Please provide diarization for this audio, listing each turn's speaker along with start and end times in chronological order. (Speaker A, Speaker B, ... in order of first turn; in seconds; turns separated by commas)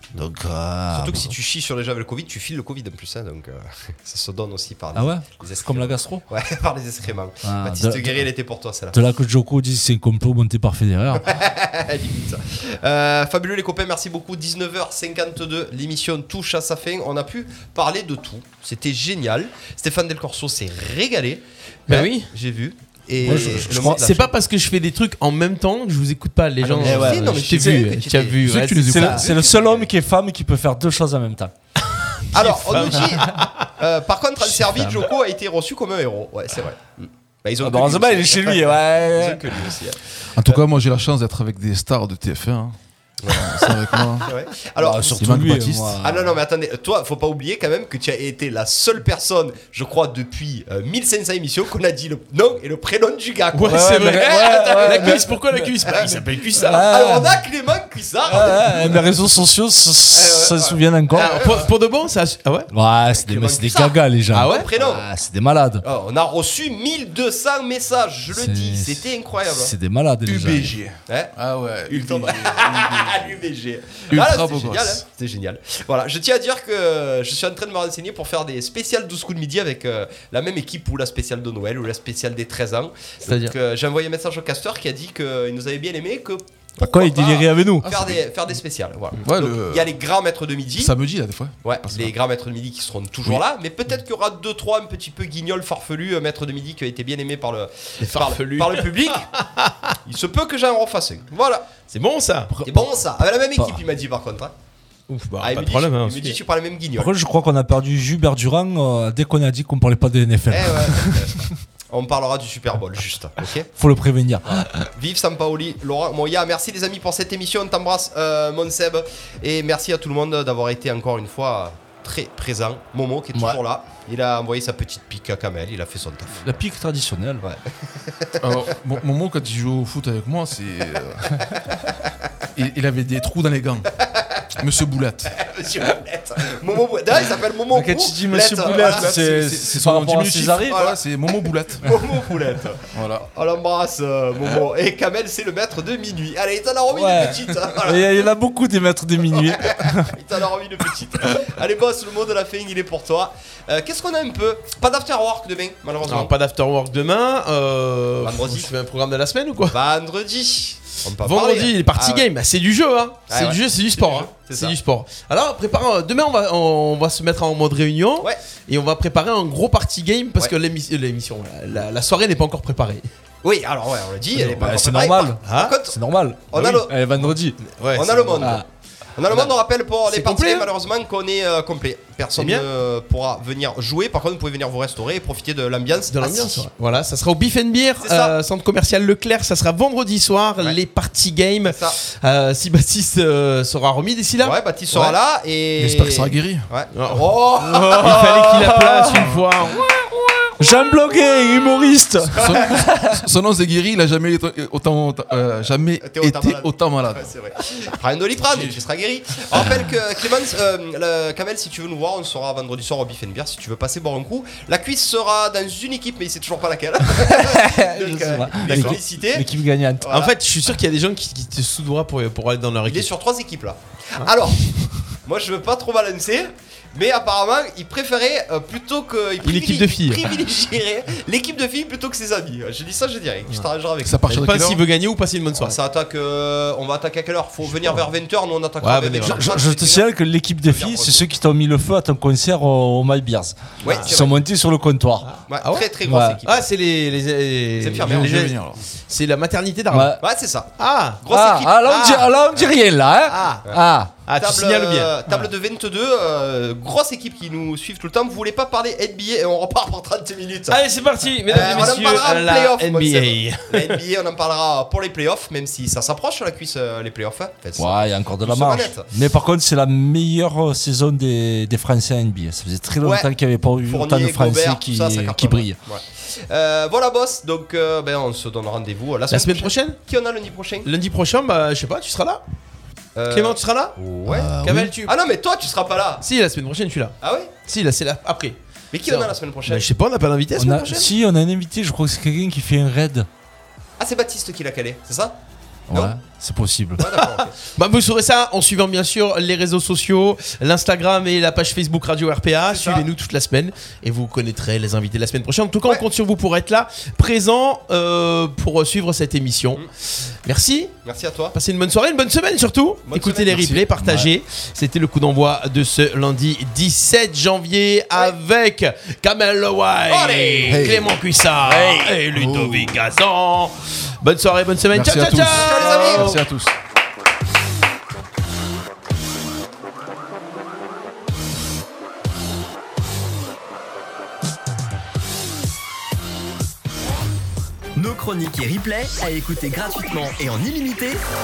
Speaker A: 0.1-1.3, Speaker B: 0.9-8.9, Speaker A: 4.9-6.2, Speaker A: 7.4-8.3, Speaker A: 8.9-11.4, Speaker B: 11.2-24.3, Speaker C: 21.9-22.3, Speaker A: 23.2-24.0, Speaker C: 23.8-29.2, Speaker B: 26.6-28.4, Speaker A: 26.8-27.9, Speaker D: 28.4-29.3, Speaker A: 28.8-31.5, Speaker B: 29.0-29.9, Speaker B: 32.3-40.6, Speaker C: 32.3-33.7, Speaker C: 34.5-35.1, Speaker A: 37.6-39.4, Speaker D: 40.3-42.8, Speaker B: 43.2-45.2, Speaker D: 43.3-44.3, Speaker A: 44.8-46.4, Speaker D: 45.1-46.0, Speaker B: 46.0-55.2, Speaker C: 53.5-57.0, Speaker A: 53.6-55.8, Speaker B: 55.9-59.0, Speaker A: 56.5-57.4, Speaker A: 58.3-61.4, Speaker B: 60.1-61.7, Speaker C: 61.1-62.7, Speaker A: 62.7-65.8, Speaker B: 63.1-65.0, Speaker C: 64.3-64.7, Speaker B: 65.8-69.7, Speaker A: 68.3-70.7, Speaker D: 70.3-73.4, Speaker B: 71.1-71.3, Speaker B: 71.9-91.0, Speaker D: 74.1-75.0, Speaker C: 83.3-83.5, Speaker A: 86.8-87.9, Speaker D: 87.8-88.2, Speaker D: 89.2-89.9, Speaker D: 90.8-92.1, Speaker B: 91.6-99.3, Speaker C: 98.0-99.9, Speaker B: 100.0-101.6, Speaker C: 101.9-102.5, Speaker B: 102.7-104.5, Speaker C: 105.1-106.4, Speaker B: 105.4-107.1, Speaker A: 107.0-111.4, Speaker B: 110.5-113.7, Speaker A: 113.8-114.8, Speaker B: 114.5-126.5, Speaker A: 123.3-123.6, Speaker A: 126.4-127.4, Speaker B: 127.4-128.4, Speaker D: 128.4-131.4, Speaker D: 132.6-133.9, Speaker B: 134.2-134.5, Speaker D: 134.6-135.4, Speaker B: 135.3-139.3, Speaker A: 137.7-140.8, Speaker D: 138.8-141.9, Speaker B: 140.7-148.3, Speaker D: 142.9-143.3, Speaker A: 146.9-150.1, Speaker B: 149.3-156.3, Speaker C: 156.1-159.8, Speaker B: 158.2-158.7, Speaker B: 159.7-162.3, Speaker C: 161.1-173.1, Speaker B: 163.3-164.7, Speaker B: 173.4-175.9, Speaker A: 174.3-177.6, Speaker C: 175.4-175.8, Speaker B: 176.5-176.9, Speaker C: 177.6-178.6, Speaker B: 177.9-178.6, Speaker A: 178.4-178.7, Speaker B: 179.2-186.7, Speaker C: 179.3-180.7, Speaker C: 182.4-182.7, Speaker C: 186.1-195.2, Speaker B: 188.0-188.3, Speaker B: 191.7-192.0, Speaker B: 194.4-198.1, Speaker D: 195.8-196.7, Speaker C: 196.9-199.9, Speaker A: 197.7-199.2, Speaker A: 200.6-203.2, Speaker D: 202.4-207.3, Speaker B: 206.0-219.5, Speaker D: 208.4-208.8, Speaker A: 217.1-220.1, Speaker C: 218.7-219.0, Speaker B: 220.0-220.3, Speaker C: 220.1-223.1, Speaker B: 222.9-224.6, Speaker B: 225.2-234.3, Speaker C: 229.4-230.3, Speaker D: 234.0-234.8, Speaker C: 234.3-235.8, Speaker B: 235.6-240.1, Speaker C: 238.8-239.4, Speaker A: 239.2-245.3, Speaker B: 240.7-241.2, Speaker C: 243.8-244.2, Speaker B: 243.8-244.3, Speaker C: 245.2-245.9, Speaker B: 245.5-246.7, Speaker A: 246.1-246.4, Speaker C: 246.4-250.2, Speaker B: 247.8-248.4, Speaker D: 248.0-248.8, Speaker A: 249.9-250.2, Speaker B: 250.2-252.7, Speaker C: 250.8-251.2, Speaker A: 251.3-254.1, Speaker C: 251.8-252.3, Speaker C: 253.3-255.1, Speaker B: 254.4-260.8, Speaker C: 260.7-264.0, Speaker B: 261.4-269.1, Speaker A: 267.8-275.8, Speaker B: 273.0-273.3, Speaker B: 273.9-280.9, Speaker C: 279.3-280.0, Speaker C: 280.8-282.4, Speaker B: 283.1-286.2, Speaker C: 283.3-284.0, Speaker A: 284.3-284.9, Speaker C: 284.6-285.1, Speaker C: 286.2-287.1, Speaker B: 287.2-287.5, Speaker C: 287.7-291.1, Speaker B: 288.9-289.9, Speaker A: 290.6-293.3, Speaker B: 294.0-295.4, Speaker A: 295.9-297.1, Speaker B: 297.0-297.5, Speaker C: 297.8-309.9, Speaker B: 302.7-303.1, Speaker C: 310.4-310.9, Speaker B: 311.1-311.6, Speaker C: 311.5-326.4, Speaker B: 313.1-313.7, Speaker D: 313.5-314.3, Speaker B: 320.1-321.1, Speaker D: 320.7-321.1, Speaker D: 322.3-323.0, Speaker D: 324.9-326.7, Speaker B: 325.5-326.4, Speaker E: 337.9-341.2